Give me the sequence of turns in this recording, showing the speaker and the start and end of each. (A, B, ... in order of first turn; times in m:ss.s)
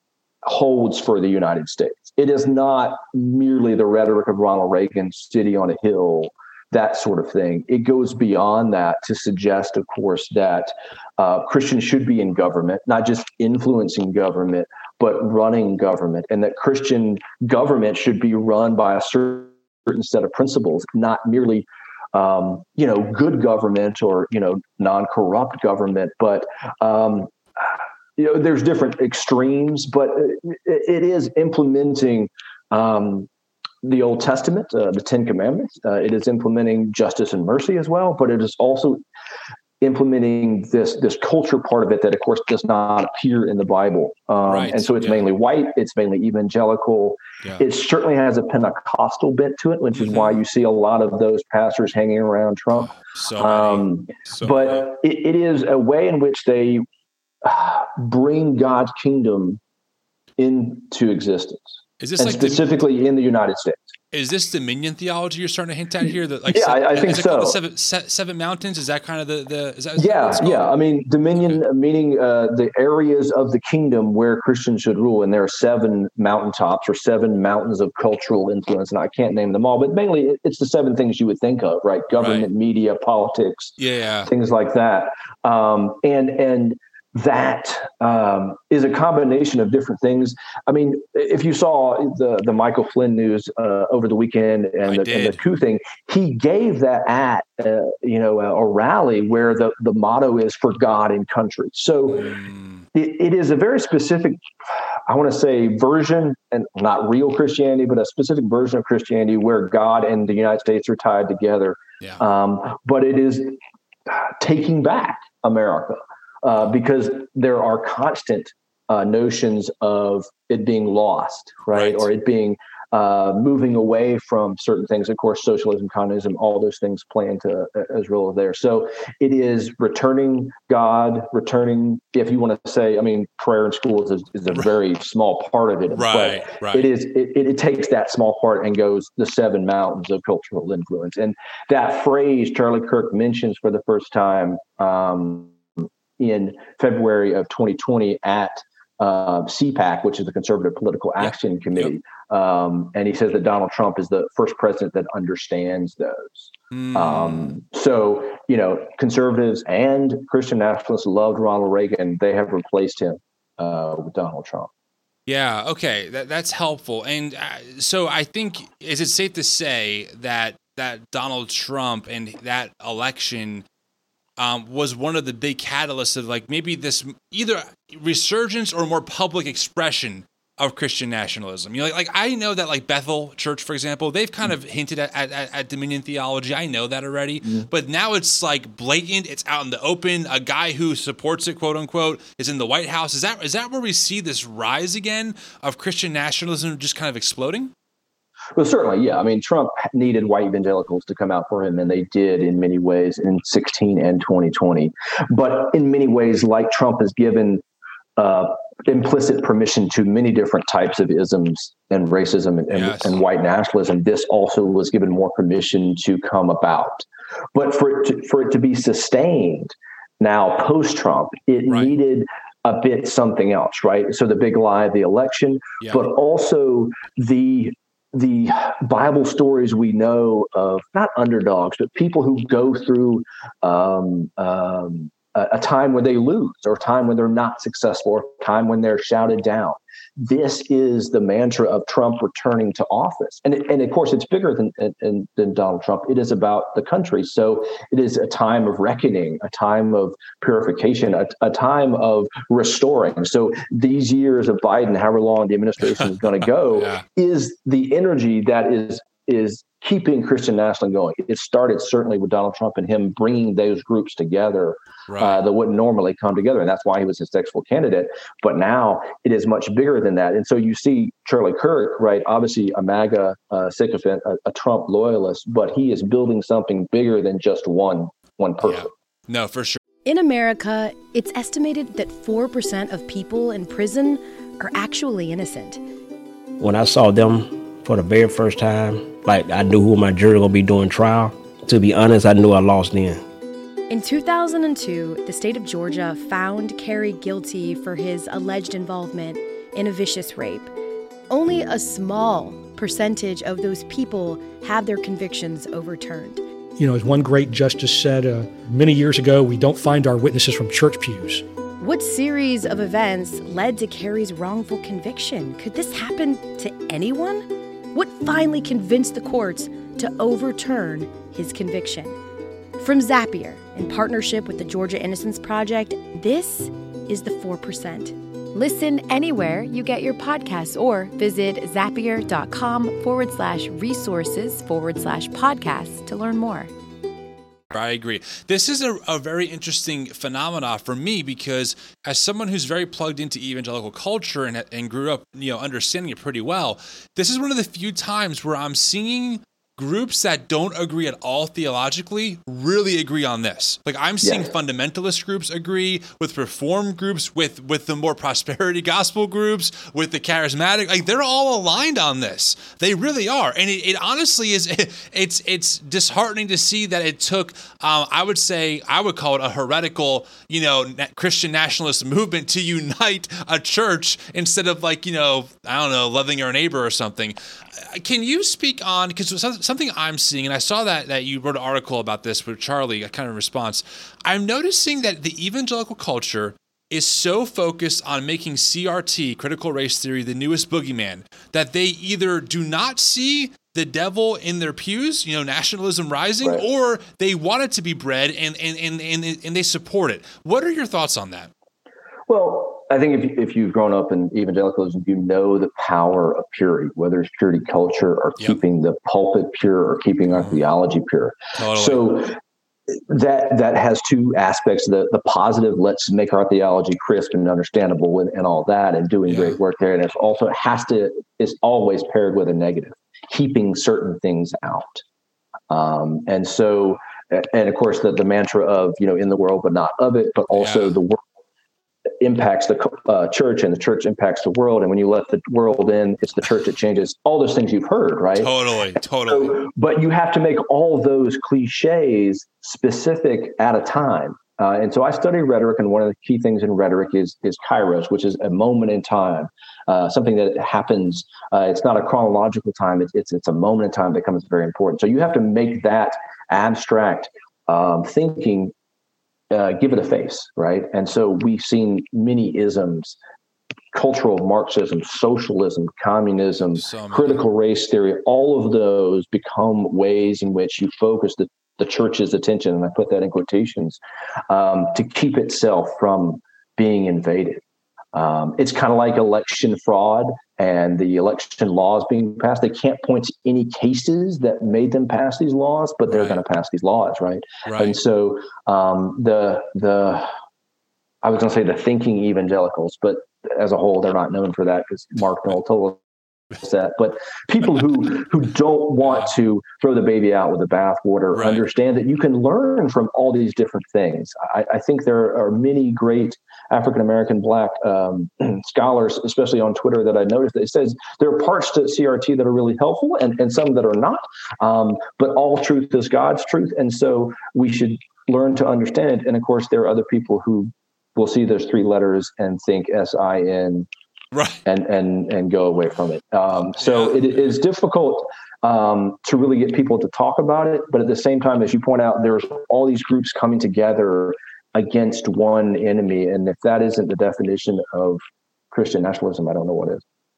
0:00.5-0:33.3 A
0:33.8-0:39.0 A
0:39.8-0:56.9 A
0:44.4-0:45.2 B
0:49.9-0:50.4 B
0:52.8-0:54.7 B
0:57.4-0:59.6 A
1:00.4-1:03.8 A
1:02.0-1:02.8 B
1:04.1-1:10.7 B
1:06.5-1:07.6 A
1:10.0-1:23.7 A
1:22.2-1:22.5 B
1:23.8-1:24.3 B
1:24.3-1:42.3 A
1:34.8-1:35.4 B
1:42.2-1:42.8 B
1:42.9-1:44.4 A
1:45.1-1:53.6 A
1:54.1-2:25.6 A
2:01.7-2:02.1 B
2:15.9-2:16.9 B
2:26.2-2:44.7 A
2:31.2-2:31.9 B
2:36.7-2:37.6 B
2:45.3-2:53.6 B
2:54.4-3:17.7 B
3:18.6-3:27.6 A
3:28.2-4:38.9 A
3:32.7-3:33.2 B
4:16.8-4:17.0 B
4:25.1-4:25.4 B
4:38.6-4:39.8 B
4:40.1-4:45.8 C
4:46.6-4:53.2 D
4:53.9-5:00.7 C
5:01.3-5:06.4 C
5:06.8-5:11.4 E
5:11.8-5:22.2 C
5:22.8-5:36.7 C
5:37.7-6:41.5 B
5:54.2-5:54.5 A
6:42.3-6:52.4 A
6:50.3-6:50.6 B
6:51.6-6:52.1 B
6:53.1-7:05.0 A
6:59.3-6:59.6 B
7:05.7-7:11.2 A
7:10.5-7:11.0 B
7:12.2-7:18.5 A
7:18.4-7:19.6 B
7:19.3-7:38.7 A
7:39.5-7:43.2 A
7:43.9-7:57.6 A
7:46.8-7:47.4 B
7:58.1-8:10.3 A
8:06.1-8:06.4 B
8:07.7-8:08.0 B
8:11.2-8:16.0 A
8:16.6-8:43.9 A
8:21.4-8:21.6 B
8:44.3-8:44.6 B
8:44.7-9:00.0 A
8:46.8-8:47.5 B